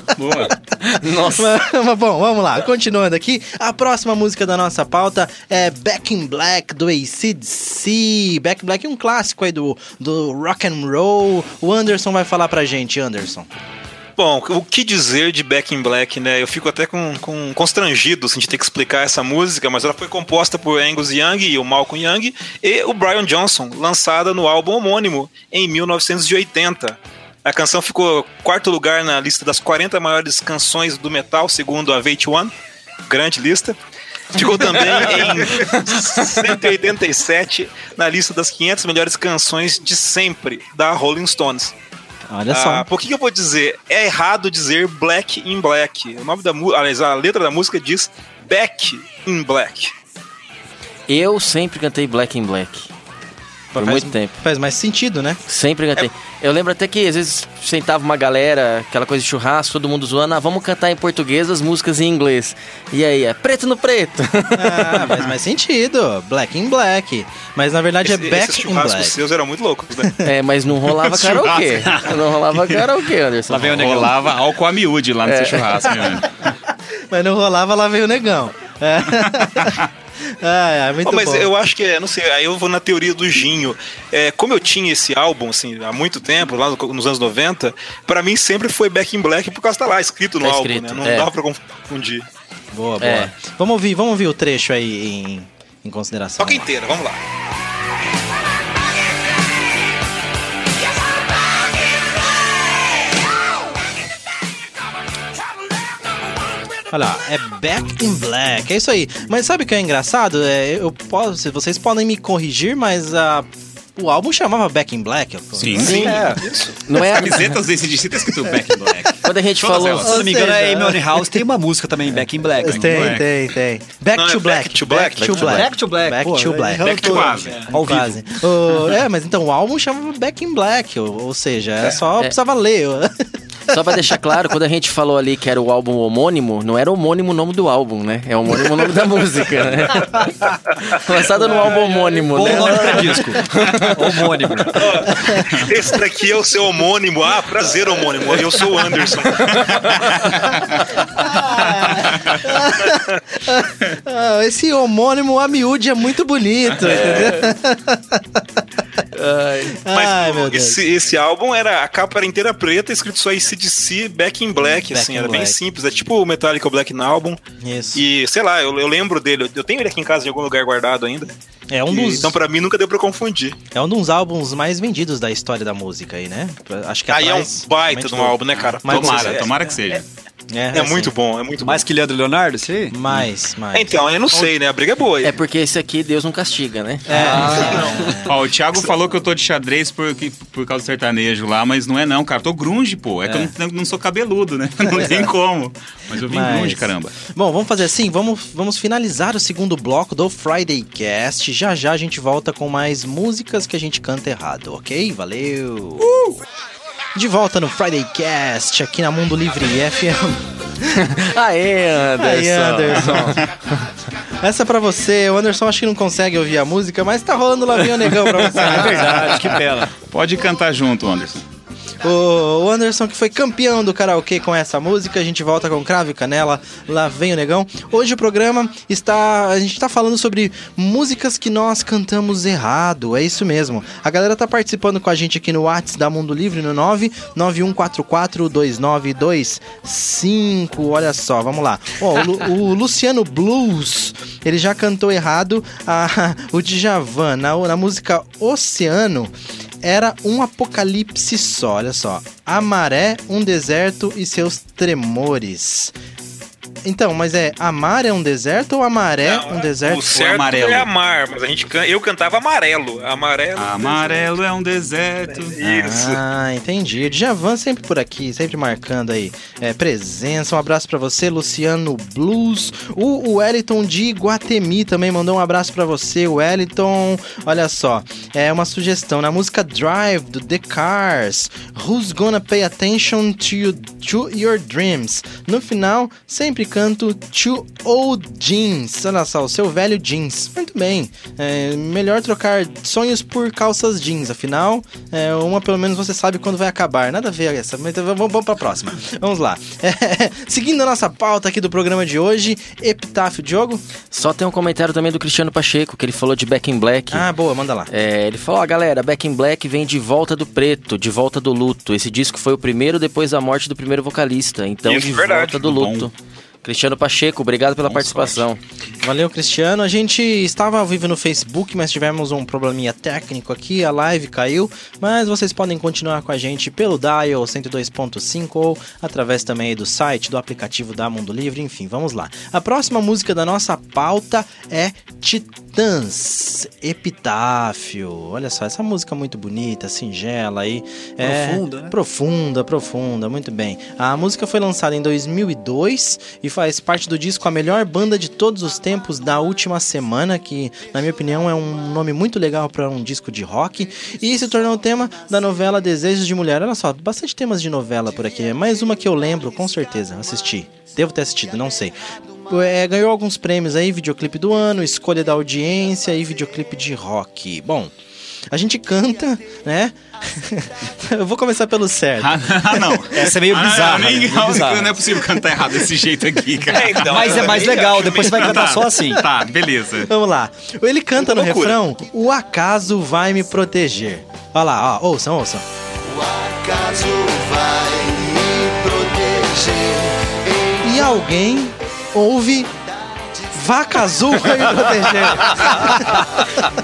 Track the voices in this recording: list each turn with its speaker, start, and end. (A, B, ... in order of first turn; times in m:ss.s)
0:00.1-0:00.5 A
0:00.8-0:01.5 B
0:01.2-0:13.5 C
0:14.2-0:32.5 D
0:33.1-0:33.8 D
0:34.3-0:41.7 D
0:42.3-0:42.9 C
0:42.5-0:49.9 D
0:51.1-0:52.9 B
0:53.7-0:55.4 C
0:53.8-0:54.4 B
0:55.5-1:05.0 B
1:04.5-1:09.2 C
1:08.0-1:10.2 D
1:10.2-1:14.1 B
1:10.8-1:12.9 A
1:13.5-1:14.3 E
1:13.7-1:16.4 A
1:15.2-1:15.8 B
1:17.1-1:21.5 C
1:21.0-1:32.3 D
1:30.4-1:31.3 B
1:32.7-1:36.7 C
1:33.0-1:33.3 B
1:36.4-1:37.2 D
1:46.9-1:56.2 C
1:55.6-1:56.3 A
1:55.8-1:56.4 E
1:55.8-1:56.3 B
1:56.3-1:56.8 D
1:56.9-1:57.6 B
1:56.9-2:00.2 A
1:59.2-2:00.1 B
2:00.0-2:03.2 E
2:00.0-2:01.4 C
2:02.6-2:14.1 C
2:02.6-2:03.3 A
2:04.1-2:05.5 D
2:05.2-2:05.6 B
2:05.3-2:08.1 E
2:06.8-2:07.7 A
2:13.7-2:24.3 B
2:21.5-2:24.9 E
2:24.7-2:29.8 D
2:25.1-2:25.6 C
2:29.6-2:29.9 B
2:29.9-2:30.8 A
2:31.2-2:38.4 C
2:31.7-2:32.4 A
2:36.9-2:37.4 B
2:39.2-2:39.8 B
2:39.7-2:40.8 C
2:39.9-2:47.4 D
2:44.6-2:45.6 C
2:47.6-2:48.0 C
2:47.9-2:51.3 D
2:51.7-2:52.4 C
2:51.9-2:53.6 D
2:53.7-2:59.5 C
2:57.1-2:59.5 D
2:58.8-3:00.0 A
3:00.5-3:01.1 C
3:00.7-3:01.8 D
3:01.6-3:02.9 E
3:02.9-3:04.0 C
3:03.7-3:05.4 D
3:05.2-3:07.8 B
3:07.1-3:08.4 C
3:07.1-3:08.1 E
3:07.6-3:07.9 D
3:08.2-3:17.1 A
3:14.9-3:15.3 C
3:16.2-3:26.2 C
3:27.1-3:31.1 C
3:30.9-3:33.4 B
3:32.2-3:33.5 C
3:34.4-3:39.5 C
3:38.6-3:39.9 E
3:40.0-3:41.4 A
3:42.0-4:15.9 C
4:16.8-4:20.2 C
4:19.2-4:24.3 D
4:20.1-4:20.9 A
4:23.6-4:25.6 A
4:25.3-4:26.2 D
4:25.6-5:03.8 C
5:04.1-5:07.2 B
5:07.1-5:07.9 C
5:07.9-5:16.1 B
5:14.8-5:15.6 D
5:15.6-5:16.1 A
5:16.6-5:18.6 B
5:17.8-5:18.4 A
5:19.0-6:07.9 C
5:41.2-5:41.9 E
6:08.5-6:13.3 C
6:12.2-6:20.1 A
6:13.1-6:15.0 E
6:16.7-6:18.6 D
6:17.0-6:19.2 E
6:20.0-6:25.6 C
6:21.2-6:21.8 D
6:26.1-6:30.8 F
6:30.8-6:32.7 C
6:33.5-6:36.2 C